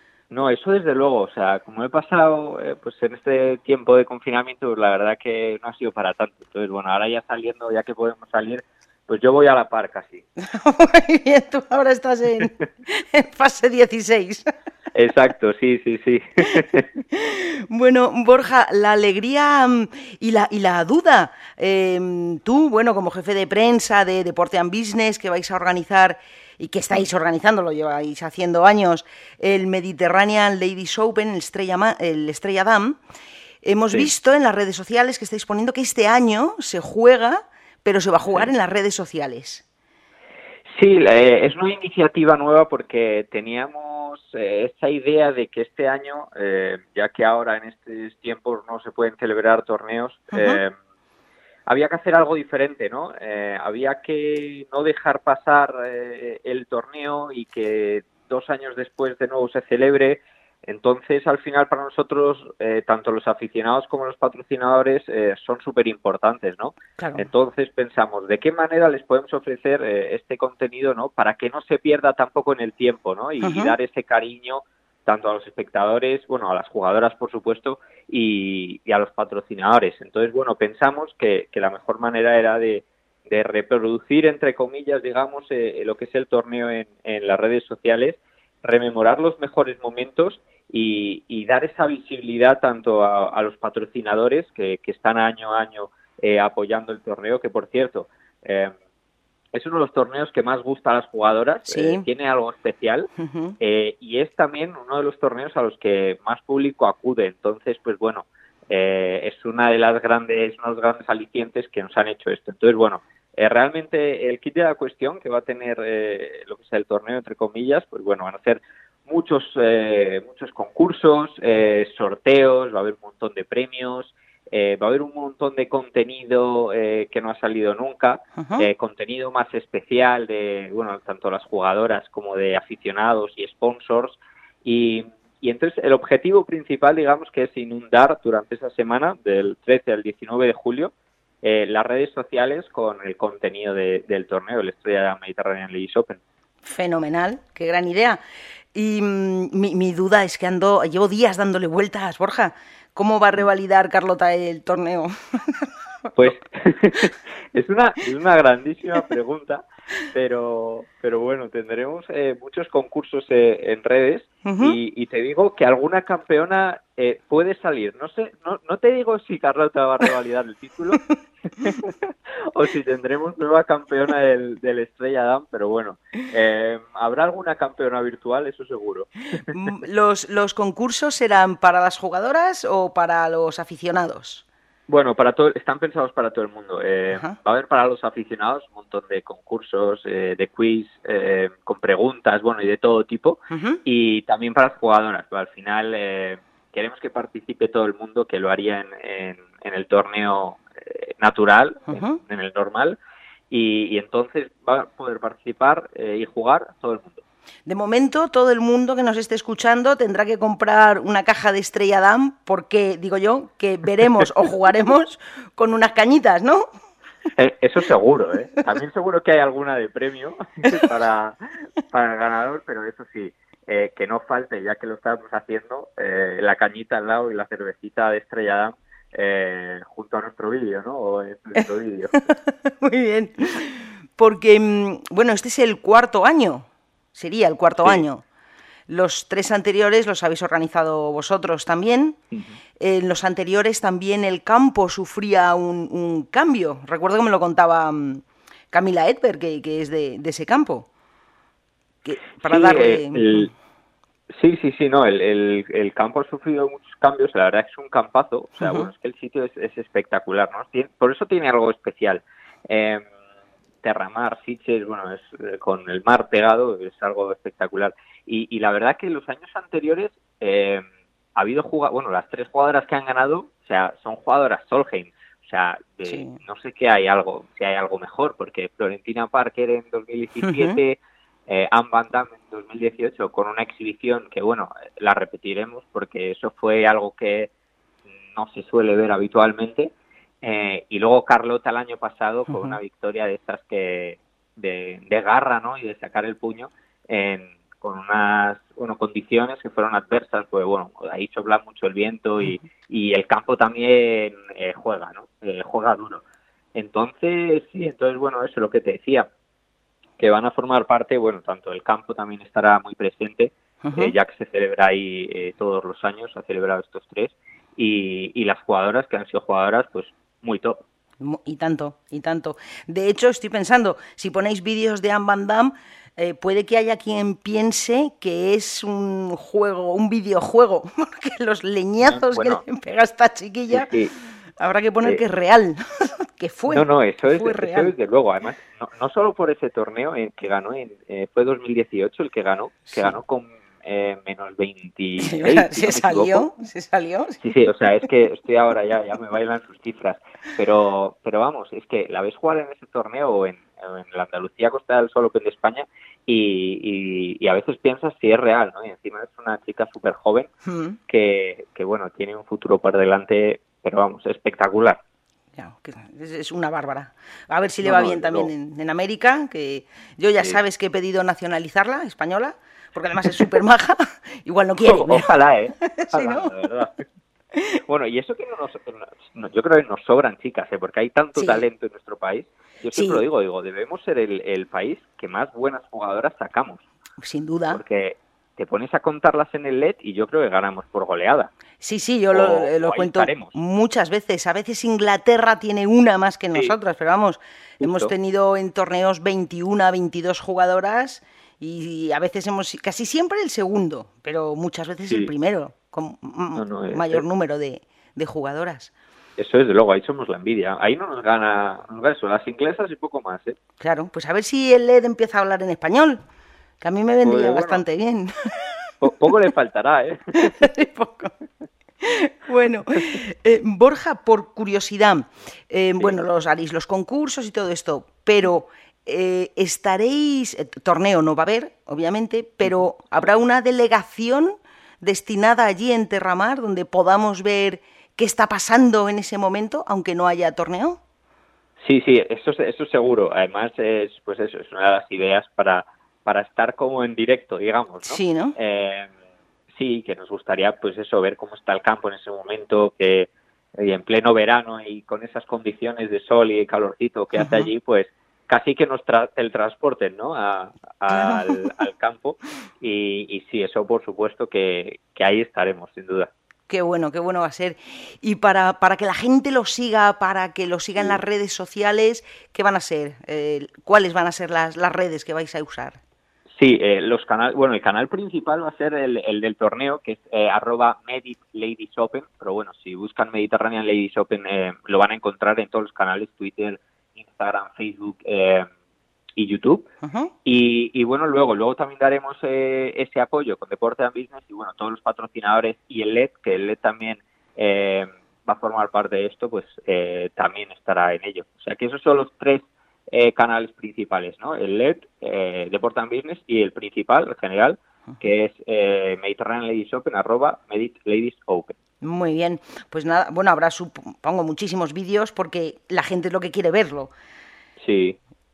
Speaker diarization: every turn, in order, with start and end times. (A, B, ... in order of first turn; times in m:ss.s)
0:00.3-0:10.2 A
0:10.4-0:14.5 B
0:14.9-0:16.9 A
0:16.5-0:33.0 B
0:33.6-0:39.6 B
0:40.8-0:50.7 A
0:50.3-0:50.6 B
0:51.7-1:38.7 A
1:07.0-1:07.3 B
1:13.4-1:13.8 B
1:39.5-2:26.2 A
1:41.7-1:42.0 B
1:43.2-1:43.6 B
2:08.4-2:08.7 B
2:26.6-2:28.2 B
2:28.7-2:36.3 B
2:36.2-2:59.6 A
2:44.4-2:44.8 B
2:59.5-3:04.4 B
3:04.9-3:23.0 A
3:07.1-3:07.4 B
3:13.5-3:13.8 B
3:21.9-3:22.2 B
3:23.5-3:27.2 A
3:27.6-3:36.7 B
3:37.3-3:41.4 A
3:41.9-3:52.2 A
3:52.2-3:58.2 B
3:58.9-4:02.2 B
4:02.8-4:10.9 B
4:12.0-4:13.5 B
4:12.4-4:13.5 A
4:14.3-4:23.0 A
4:18.6-4:18.9 B
4:23.8-4:30.8 A
4:31.3-4:47.5 A
4:36.0-4:36.4 B
4:40.4-4:40.8 B
4:48.3-5:06.2 A
4:52.5-4:52.8 B
5:06.8-5:09.3 A
5:10.2-5:20.8 A
5:13.8-5:14.2 B
5:21.2-5:33.9 B
5:32.0-5:32.6 A
5:33.7-5:34.1 A
5:34.6-5:37.9 B
5:36.7-5:46.5 A
5:45.2-5:47.4 B
5:47.4-6:00.5 A
6:00.6-6:01.0 B
6:01.1-6:05.0 A
6:05.6-6:15.3 B
6:07.8-6:08.5 A
6:14.8-6:17.0 A
6:15.8-6:16.5 B
6:17.5-6:17.8 B
6:17.8-6:26.8 A
6:21.4-6:21.7 B
6:22.9-6:23.2 B
6:27.2-6:27.8 B
6:27.7-6:31.5 A
6:31.8-6:48.9 B
6:32.3-6:33.5 A
6:37.8-6:38.1 A
6:46.5-6:47.2 A
6:49.4-6:53.6 A
6:53.8-6:56.2 B
6:56.8-6:58.9 B
6:57.2-6:57.8 A
6:59.0-7:00.6 A
7:00.4-7:01.5 B
7:02.0-7:21.0 B
7:21.8-7:29.1 A
7:28.0-7:28.5 B
7:29.7-7:46.3 A
7:37.4-7:37.7 B
7:41.1-7:41.6 B
7:46.7-7:56.0 B
7:56.5-8:08.7 A
8:09.4-8:09.9 A
8:10.0-8:10.3 B
8:10.4-8:31.8 A
8:32.0-8:37.1 B
8:37.8-8:38.2 A